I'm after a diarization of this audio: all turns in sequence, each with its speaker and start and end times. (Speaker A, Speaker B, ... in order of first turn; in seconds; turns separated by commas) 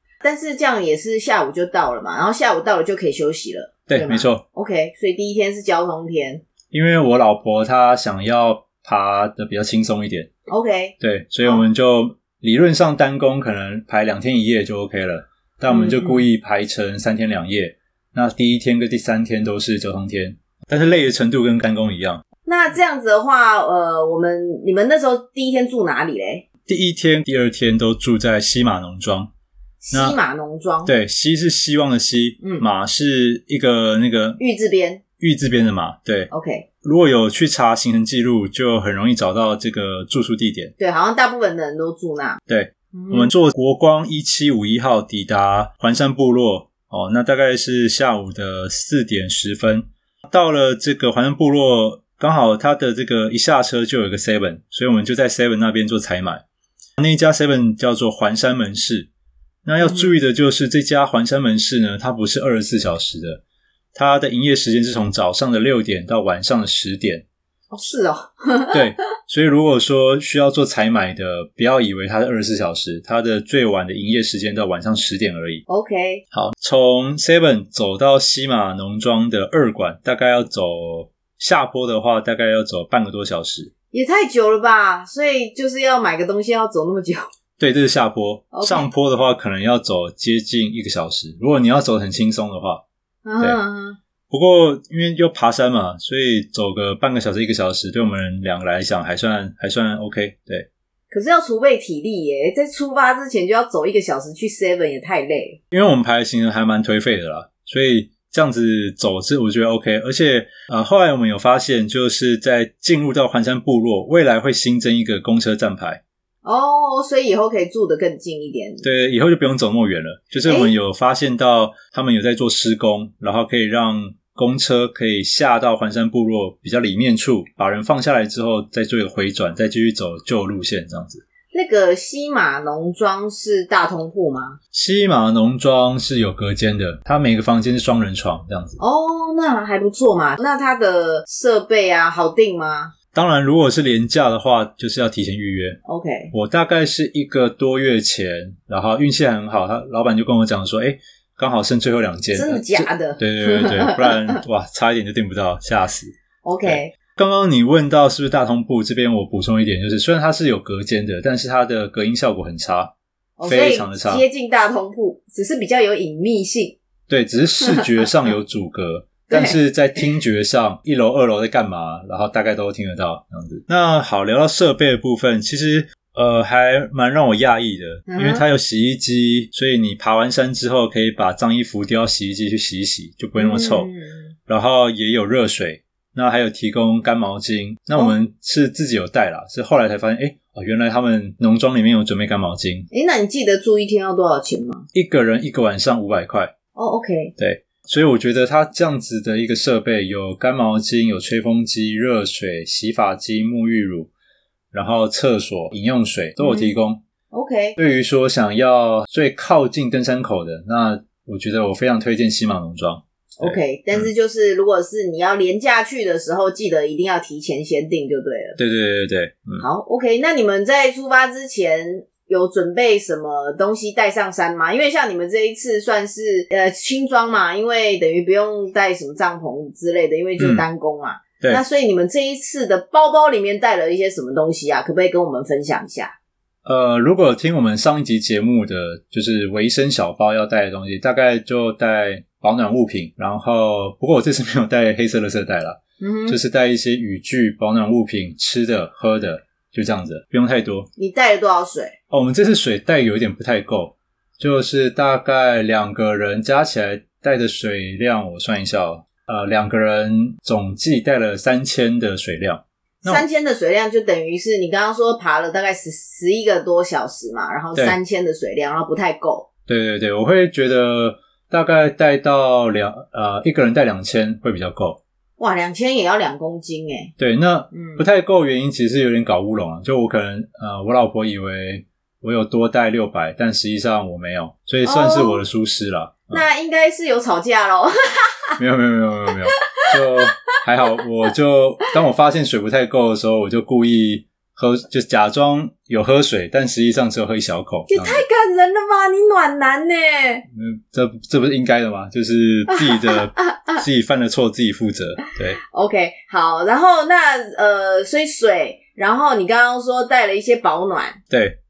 Speaker A: 0.2-6.4, Speaker B: 3.9-4.4, Speaker B: 6.7-10.3, Speaker A: 10.5-11.6, Speaker B: 11.0-22.2, Speaker A: 15.7-16.2, Speaker A: 22.5-26.4, Speaker B: 26.7-29.3, Speaker A: 29.8-30.9, Speaker B: 29.9-30.2, Speaker B: 30.9-34.4, Speaker A: 32.4-32.7, Speaker A: 34.4-35.0, Speaker B: 35.2-36.3, Speaker A: 36.3-36.7, Speaker B: 36.8-40.7, Speaker A: 40.8-42.4, Speaker B: 42.5-56.4, Speaker A: 42.9-43.3, Speaker B: 57.0-59.1, Speaker B: 59.6-63.4, Speaker A: 59.8-60.2, Speaker B: 63.9-67.2, Speaker A: 67.7-68.9, Speaker B: 68.7-75.6, Speaker A: 75.7-76.2, Speaker B: 76.3-83.7, Speaker A: 83.9-87.3, Speaker B: 87.6-92.8, Speaker A: 88.5-88.9, Speaker A: 93.3-94.0, Speaker B: 94.3-100.7, Speaker A: 101.1-105.6, Speaker B: 105.7-116.0, Speaker A: 116.4-118.8, Speaker B: 118.8-131.2, Speaker A: 120.5-120.7, Speaker A: 131.5-134.6, Speaker B: 134.7-138.8, Speaker A: 138.8-142.9, Speaker B: 143.1-145.8, Speaker A: 145.8-146.3, Speaker B: 146.3-162.9, Speaker A: 152.3-154.4, Speaker A: 156.4-156.9, Speaker A: 163.4-166.8, Speaker B: 163.5-164.2, Speaker B: 167.1-183.9, Speaker A: 169.3-170.1, Speaker A: 178.1-178.4, Speaker A: 183.4-184.3, Speaker B: 184.5-192.9, Speaker A: 192.9-194.9, Speaker B: 194.9-196.5, Speaker A: 196.8-197.3, Speaker B: 197.4-204.1, Speaker B: 204.7-207.0, Speaker A: 206.4-206.7, Speaker A: 207.3-207.8, Speaker B: 207.8-214.1, Speaker A: 213.4-218.6, Speaker B: 218.6-219.6, Speaker A: 219.6-236.1, Speaker B: 230.4-230.7, Speaker B: 236.7-250.9, Speaker A: 246.0-246.4, Speaker A: 251.0-251.9, Speaker B: 252.1-263.3, Speaker A: 263.1-269.5, Speaker B: 269.7-275.0, Speaker A: 275.4-277.1, Speaker B: 277.2-286.4, Speaker A: 277.7-278.0, Speaker A: 284.8-285.4, Speaker A: 286.3-288.6, Speaker B: 288.6-298.2, Speaker A: 289.7-291.0, Speaker A: 297.9-300.5, Speaker B: 300.5-305.6, Speaker A: 302.7-303.8, Speaker A: 305.7-311.2, Speaker B: 311.3-311.6